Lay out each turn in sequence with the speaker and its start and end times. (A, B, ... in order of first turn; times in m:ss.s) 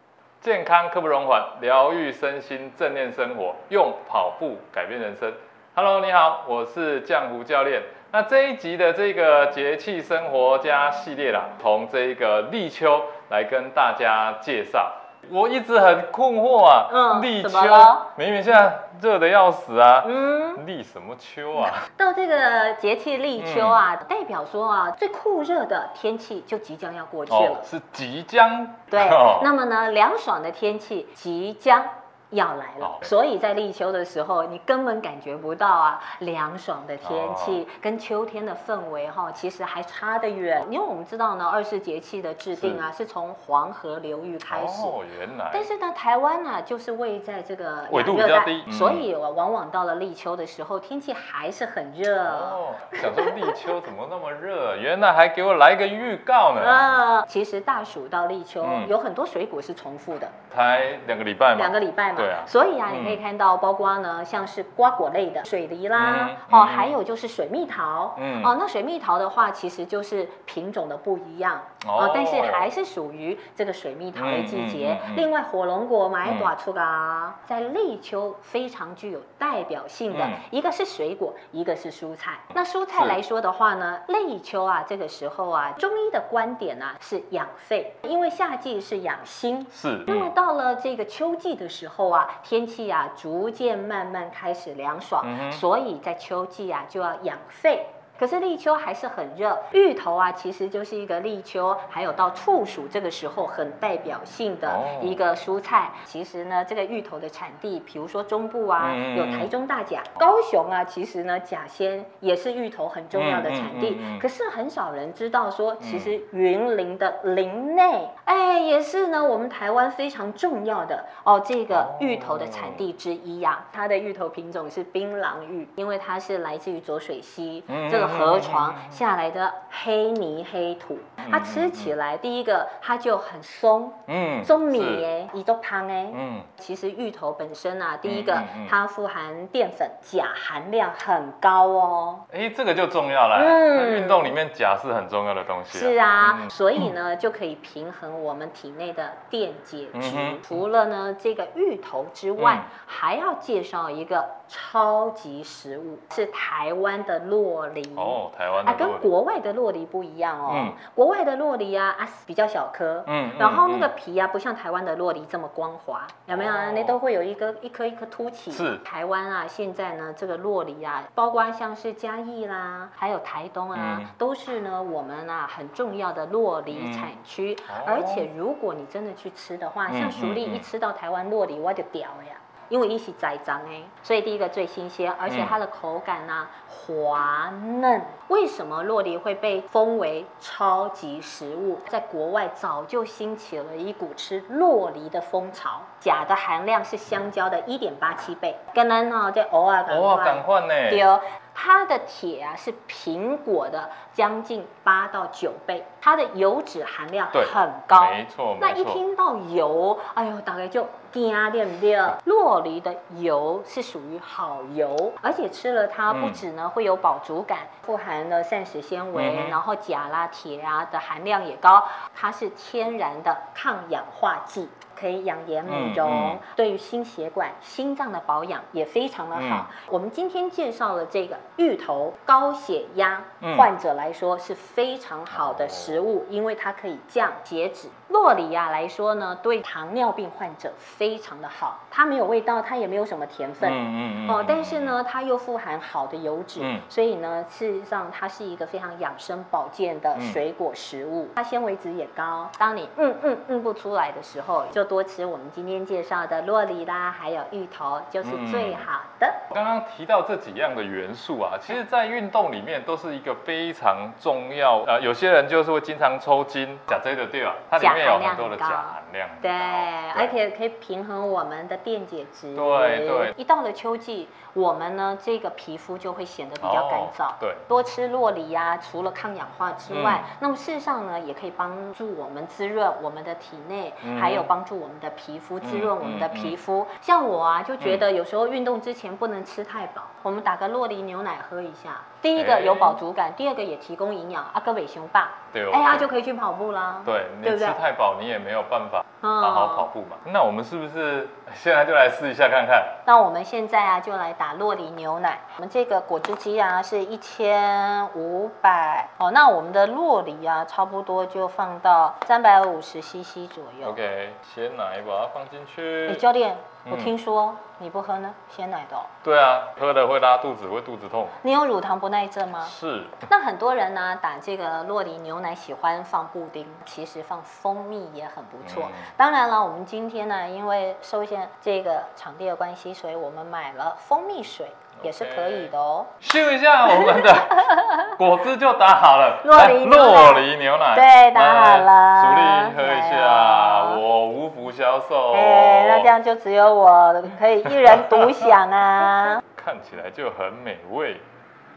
0:00.4-0:21.9 A
0:16.9-0:18.1 B
0:20.0-0:20.6 B
0:21.6-0:27.7 B
0:23.4-0:23.8 A
0:27.3-0:29.5 A
0:28.9-0:45.0 B
0:32.8-0:33.1 A
0:37.0-0:37.6 A
0:42.6-0:42.9 A
0:44.5-0:45.7 A
0:45.5-0:53.6 B
0:47.9-0:49.0 A
0:52.2-0:57.0 A
0:56.6-1:00.4 B
0:58.6-0:58.9 A
1:00.5-1:03.2 A
1:01.6-2:22.2 B
1:06.0-1:07.0 A
1:08.2-1:08.5 A
1:11.8-1:12.7 A
1:14.2-1:15.3 A
1:16.2-1:16.5 A
1:20.1-1:20.4 A
1:29.7-1:30.3 A
1:35.2-1:35.6 A
1:44.7-1:45.2 A
1:48.8-1:49.5 A
1:53.1-1:54.3 A
1:55.8-1:56.1 A
2:01.7-2:02.9 A
2:07.7-2:09.0 A
2:11.2-2:11.9 A
2:14.1-2:15.1 A
2:16.1-2:16.5 A
2:18.0-2:18.8 A
2:22.3-2:26.6 A
2:23.4-2:24.4 B
2:25.7-4:19.4 B
2:29.9-2:30.5 A
2:32.4-2:32.7 A
2:38.0-2:39.1 A
2:40.5-2:40.8 A
2:43.1-2:43.9 A
2:46.3-2:47.0 A
2:48.5-2:48.8 A
2:53.7-2:54.1 A
2:56.7-2:57.1 A
2:57.7-2:58.3 A
2:59.9-3:00.7 A
3:05.3-3:05.6 A
3:19.9-3:21.1 A
3:27.3-3:29.0 A
3:36.1-3:36.4 A
3:39.2-3:39.6 A
3:45.7-3:46.4 A
3:49.4-3:49.7 A
3:53.4-3:53.7 A
3:55.3-3:56.0 A
4:03.6-4:05.0 A
4:06.6-4:06.9 A
4:10.2-4:10.4 A
4:18.2-4:18.9 A
4:19.5-4:30.4 A
4:27.8-4:57.8 B
4:32.6-4:33.3 A
4:36.6-4:37.7 A
4:39.9-4:40.2 A
4:44.0-4:44.5 A
4:45.6-4:46.6 A
4:47.8-4:48.1 A
4:52.4-4:53.0 A
4:55.5-4:56.1 A
4:57.0-5:03.0 A
4:59.2-4:59.9 B
5:03.0-5:14.0 B
5:13.8-5:16.3 A
5:16.1-5:19.1 B
5:16.8-5:17.2 A
5:19.2-5:21.4 A
5:21.4-5:36.1 B
5:22.6-5:23.2 A
5:28.6-5:29.1 A
5:35.0-5:46.2 A
5:36.9-5:38.1 B
5:39.4-5:44.0 B
5:45.3-5:49.4 B
5:47.7-5:48.6 A
5:49.4-5:51.2 A